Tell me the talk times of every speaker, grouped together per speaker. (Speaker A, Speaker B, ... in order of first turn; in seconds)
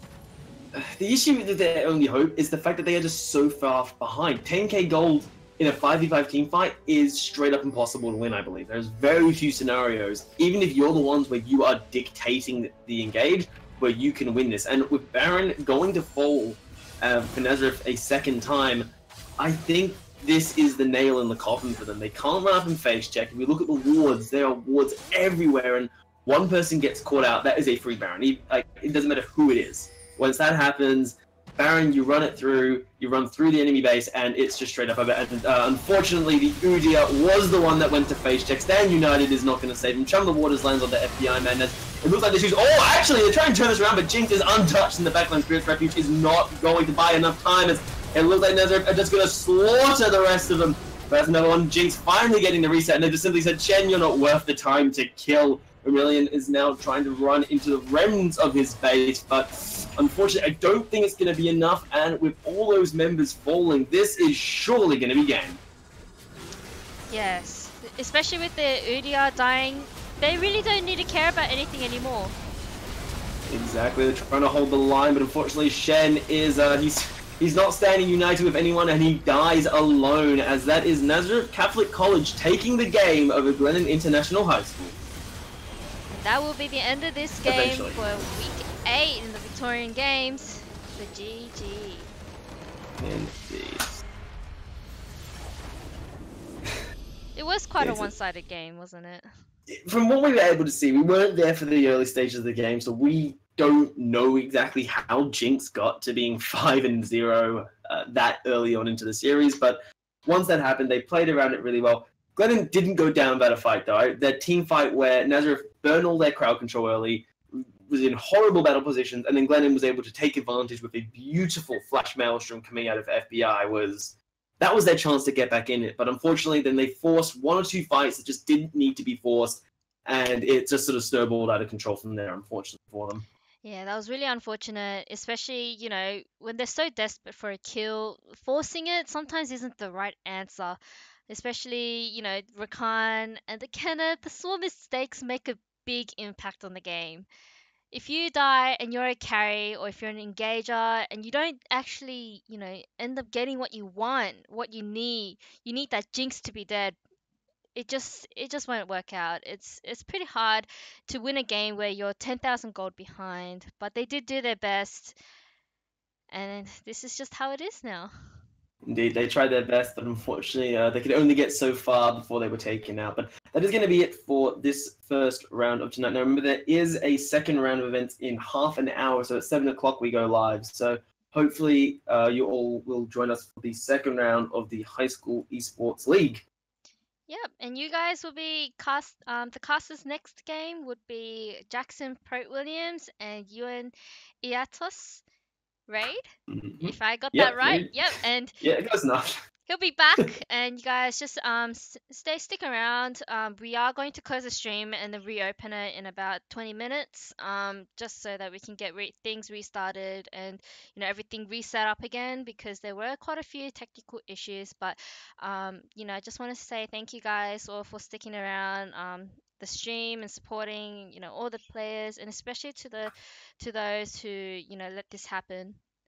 Speaker A: 0.7-65.6, 73.5-85.0, 87.5-88.0, 93.0-94.0, 97.8-98.1, 99.7-133.2, 168.9-186.5, 196.5-198.1, 198.6-199.4
Speaker B: 67.1-72.3, 86.1-92.1, 97.4-99.3, 133.6-147.3, 147.9-157.0, 157.8-165.2, 166.3-168.1, 187.3-195.2, 195.9-196.2, 196.8-198.6, 199.7-225.8